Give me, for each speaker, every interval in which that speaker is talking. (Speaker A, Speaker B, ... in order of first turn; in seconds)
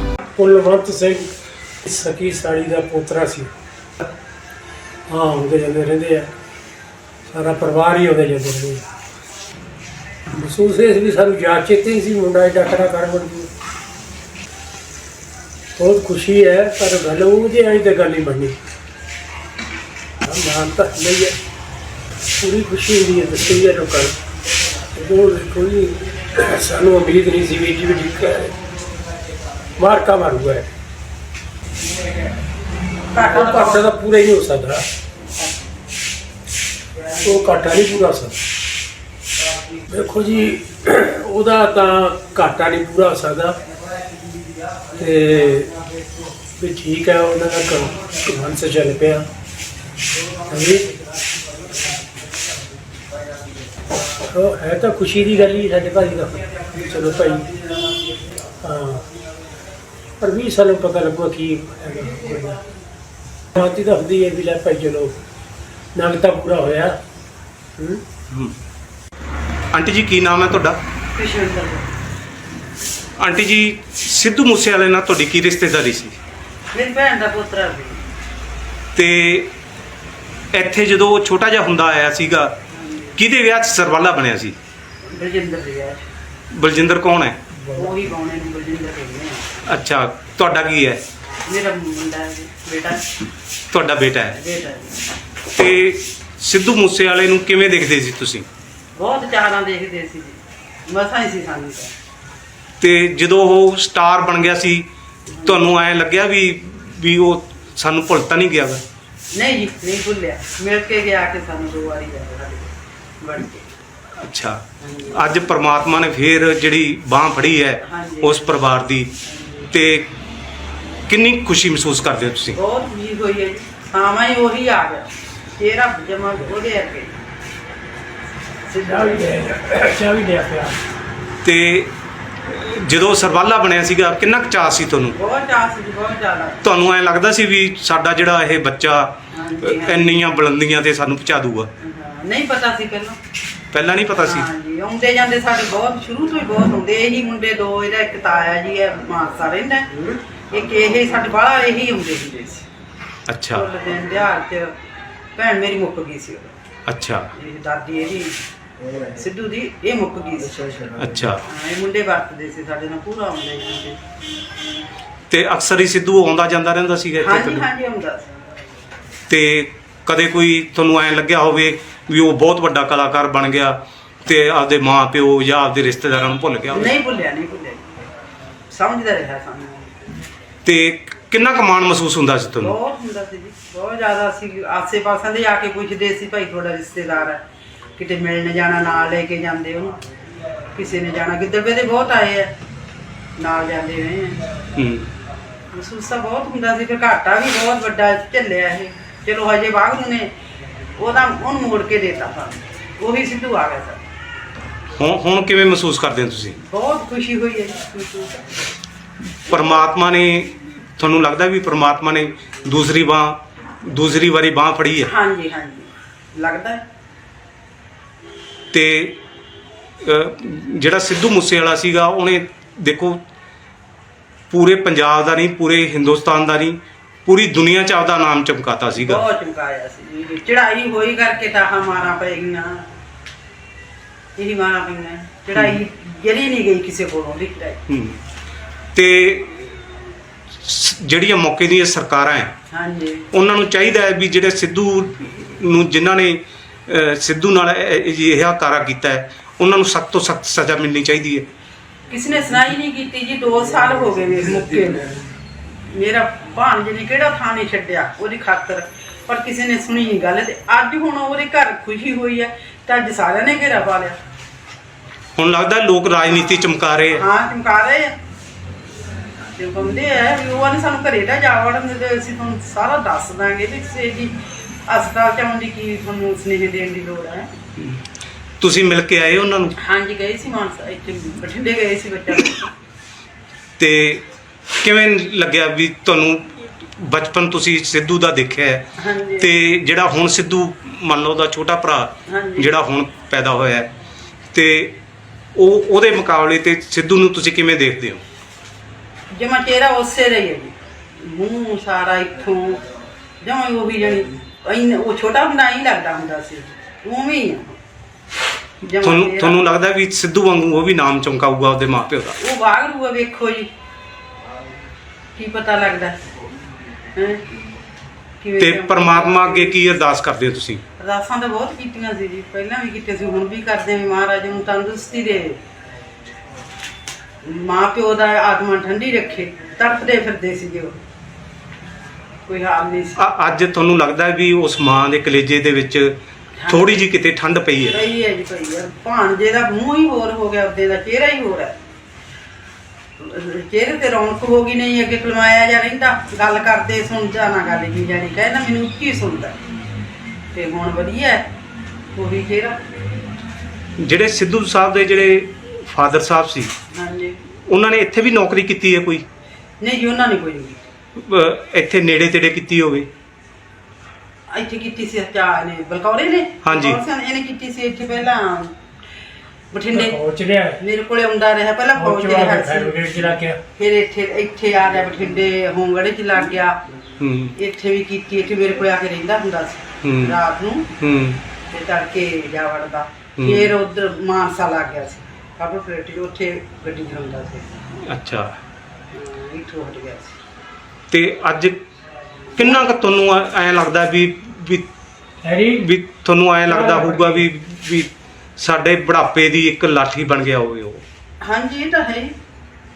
Speaker A: 0.3-3.5, 5.1-6.3, 7.3-8.8, 10.3-13.5, 15.8-18.6, 20.2-21.4, 22.4-24.2, 24.9-28.6, 29.8-30.7, 33.1-34.9, 37.2-38.4, 39.9-43.6, 45.0-45.8, 46.6-49.3, 50.5-51.0, 54.3-57.5, 58.6-59.1, 60.2-62.6, 63.6-65.2, 66.0-67.0, 67.8-68.0, 128.7-130.8, 369.9-370.8, 371.9-373.6, 395.4-395.9, 396.7-397.5
Speaker B: 33.1-33.8, 71.2-71.9, 76.7-78.0, 82.7-83.2, 85.1-86.0, 87.7-89.5, 91.4-93.0, 94.3-95.0, 99.0-101.9, 105.3-105.7, 109.3-113.7, 114.8-115.2, 117.8-118.5, 119.2-119.7, 122.5-127.1, 135.2-136.6, 139.3-140.2, 141.8-143.2, 144.2-149.9, 150.5-152.7, 153.5-154.7, 155.4-156.6, 157.4-158.3, 159.2-160.7, 161.4-164.0, 167.2-168.3, 176.7-177.8, 178.7-180.0, 182.6-187.4, 188.0-190.0, 190.7-192.5, 193.4-194.4, 195.7-200.3, 201.0-204.0, 206.6-208.4, 215.0-216.8, 229.0-232.9, 234.4-237.8, 242.7-243.3, 252.1-255.2, 255.9-264.2, 267.1-268.1, 269.6-274.3, 274.9-277.5, 279.8-282.7, 289.0-289.5, 292.3-292.8, 299.3-302.8, 303.4-307.8, 308.9-309.6, 312.4-313.7, 315.4-316.2, 317.1-317.4, 318.4-320.1, 321.0-325.6, 327.4-331.0, 332.5-333.2, 336.6-336.9, 337.9-341.8, 343.2-349.6, 350.5-351.5, 352.1-352.8, 356.9-357.4, 359.8-360.9, 364.5-368.7, 369.7-370.2, 370.8-373.0, 373.8-376.8, 377.6-380.9, 381.7-387.7, 389.1-390.4, 392.6-392.9, 401.4-402.3
Speaker C: 68.3-68.5, 69.7-70.8, 73.2-76.2, 79.0-79.5, 80.5-82.5, 83.2-84.6, 86.5-87.4, 89.7-91.0, 93.7-94.4, 95.5-98.5, 102.8-104.9, 105.5-108.8, 114.2-114.6, 115.1-119.1, 119.7-120.1, 121.1-122.6, 131.4-131.9, 132.5-135.2, 136.6-141.7, 143.7-144.5, 153.3-153.7, 156.9-157.3, 161.0-161.4, 165.3-167.7, 169.3-176.9, 180.7-182.8, 194.8-195.1, 205.0-206.6, 209.5-215.1, 218.7-219.2, 220.0-223.2, 224.5-229.2, 237.9-238.2, 238.9-239.8, 240.5-242.5, 243.3-251.5, 265.4-267.2, 277.8-278.0, 278.6-279.7, 283.8-284.2, 284.8-288.8, 289.4-293.9, 294.5-295.0, 295.6-298.2, 309.0-312.4, 318.6-320.8, 333.2-336.2, 336.7-338.0, 354.0-356.7, 357.7-359.2, 361.2-363.1, 366.6-367.0, 377.2-377.5, 380.0-380.4, 381.0-381.4, 383.4-383.7, 388.1-388.5, 391.1-391.8, 392.6-394.9, 395.8-401.0